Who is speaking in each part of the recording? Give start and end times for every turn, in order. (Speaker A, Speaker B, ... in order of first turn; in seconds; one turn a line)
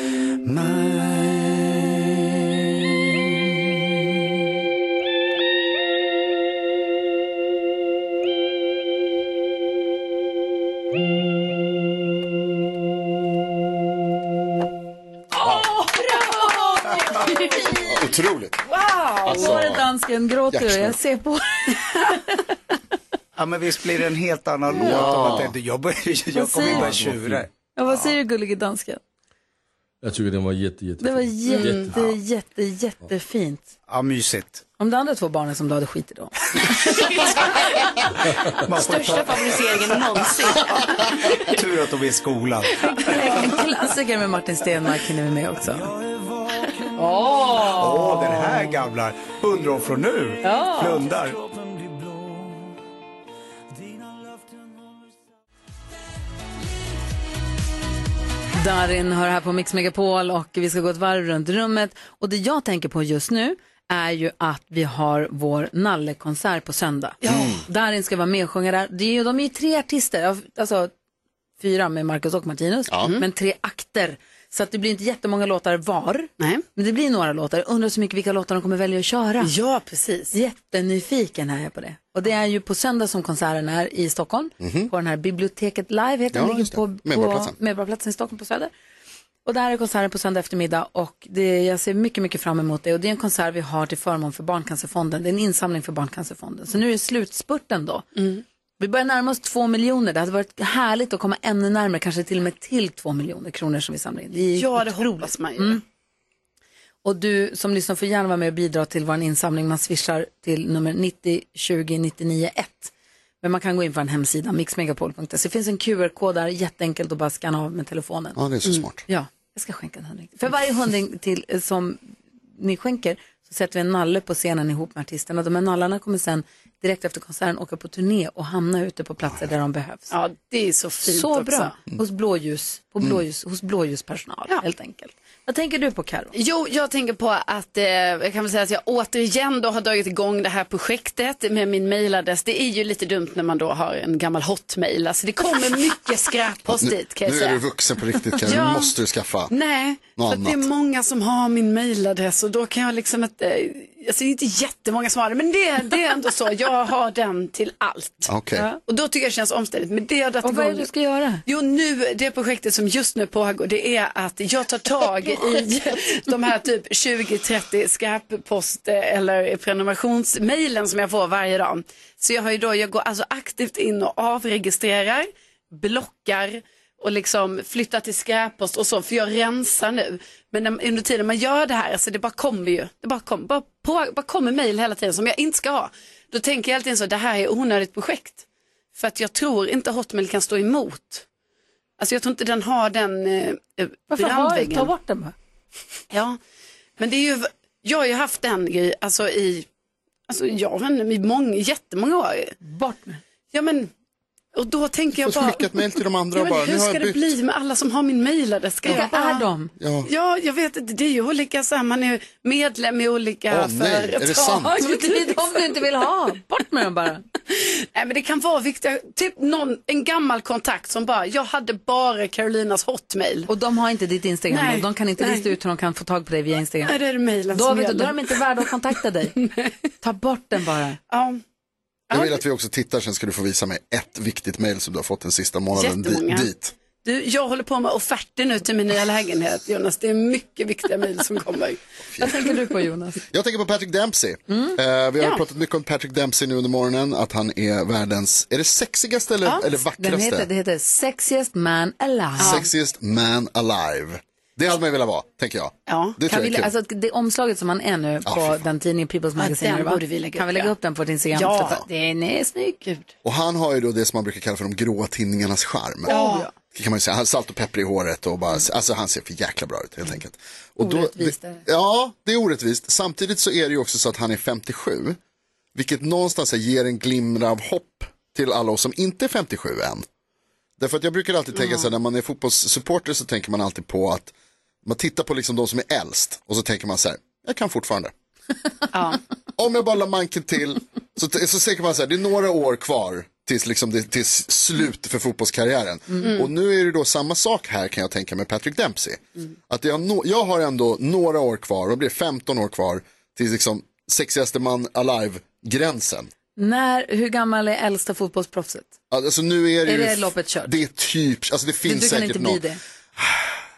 Speaker A: 0.4-3.8
Speaker B: 15.4-17.9
Speaker C: 17.7-18.6
Speaker B: 19.1-22.4
Speaker C: 19.2-19.9
Speaker C: 20.5-20.9
Speaker A: 23.4-27.5
Speaker C: 24.7-25.5
Speaker B: 24.8-25.3
Speaker B: 26.3-26.9
Speaker D: 26.7-27.4
Speaker B: 27.8-29.0
Speaker D: 30.0-32.1
Speaker B: 31.0-33.7
Speaker E: 31.5-31.9
Speaker A: 33.9-34.6
Speaker B: 34.8-37.3
Speaker A: 38.5-43.4
Speaker B: 42.8-45.9
Speaker A: 45.6-52.7
Speaker B: 47.0-48.8
Speaker B: 50.4-51.1
Speaker A: 53.7-55.0
Speaker B: 58.5-70.9
Speaker E: 67.2-67.6
Speaker C: 67.3-67.6
Speaker B: 71.6-79.5
Speaker E: 76.4-76.6
Speaker E: 79.4-80.3
Speaker B: 80.3-88.7
Speaker C: 84.6-84.9
Speaker C: 86.3-87.5
Speaker B: 89.4-98.1
Speaker E: 98.2-98.4
Speaker B: 98.8-105.8
Speaker E: 104.5-105.8
Speaker B: 107.0-118.4
Speaker C: 118.4-119.0
Speaker B: 119.1-122.0
Speaker B: 122.6-130.1
Speaker E: 130.1-131.7
Speaker B: 131.1-136.3
Speaker E: 136.3-147.6
Speaker C: 146.7-149.5
Speaker E: 148.4-148.9
Speaker E: 149.5-158.3
Speaker C: 150.2-150.7
Speaker C: 158.3-158.7
Speaker E: 158.8-160.9
Speaker B: 160.4-161.4
Speaker E: 161.4-188.4
Speaker B: 165.3-165.7
Speaker E: 188.9-191.2
Speaker E: 192.0-194.9
Speaker B: 194.1-195.3
Speaker E: 196.1-196.4
Speaker E: 197.0-199.7
Speaker E: 200.3-202.6
Speaker B: 202.6-203.2
Speaker E: 203.5-203.9
Speaker E: 204.6-205.7
Speaker C: 205.2-207.2
Speaker E: 206.3-209.4
Speaker B: 208.8-209.7
Speaker C: 209.8-210.1
Speaker E: 210.1-215.6
Speaker C: 213.5-214.7
Speaker B: 214.8-217.2
Speaker E: 217.5-223.5
Speaker B: 223.5-226.9
Speaker E: 224.5-225.5
Speaker E: 226.8-228.4
Speaker B: 227.5-229.4
Speaker E: 229.4-229.7
Speaker B: 230.0-231.0
Speaker E: 231.1-231.4
Speaker E: 232.1-232.4
Speaker C: 232.1-236.7
Speaker E: 235.7-236.5
Speaker E: 237.0-241.8
Speaker C: 242.1-242.4
Speaker B: 242.2-243.2
Speaker C: 243.3-250.5
Speaker B: 244.5-244.8
Speaker B: 250.0-252.6
Speaker E: 252.4-252.7
Speaker C: 252.4-256.7
Speaker E: 255.9-256.2
Speaker B: 256.3-263.0
Speaker C: 258.3-258.6
Speaker E: 259.4-260.7
Speaker E: 261.3-261.8
Speaker C: 263.2-266.1
Speaker E: 266.1-266.5
Speaker B: 266.1-266.5
Speaker C: 266.7-275.2
Speaker B: 270.8-271.6
Speaker C: 275.7-280.1
Speaker C: 280.8-284.3
Speaker E: 281.6-281.9
Speaker C: 284.8-288.1
Speaker E: 288.9-289.2
Speaker C: 289.6-306.3
Speaker E: 296.2-296.5
Speaker B: 306.6-308.9
Speaker C: 309.1-312.6
Speaker B: 309.9-310.7
Speaker B: 311.8-312.8
Speaker C: 313.2-313.5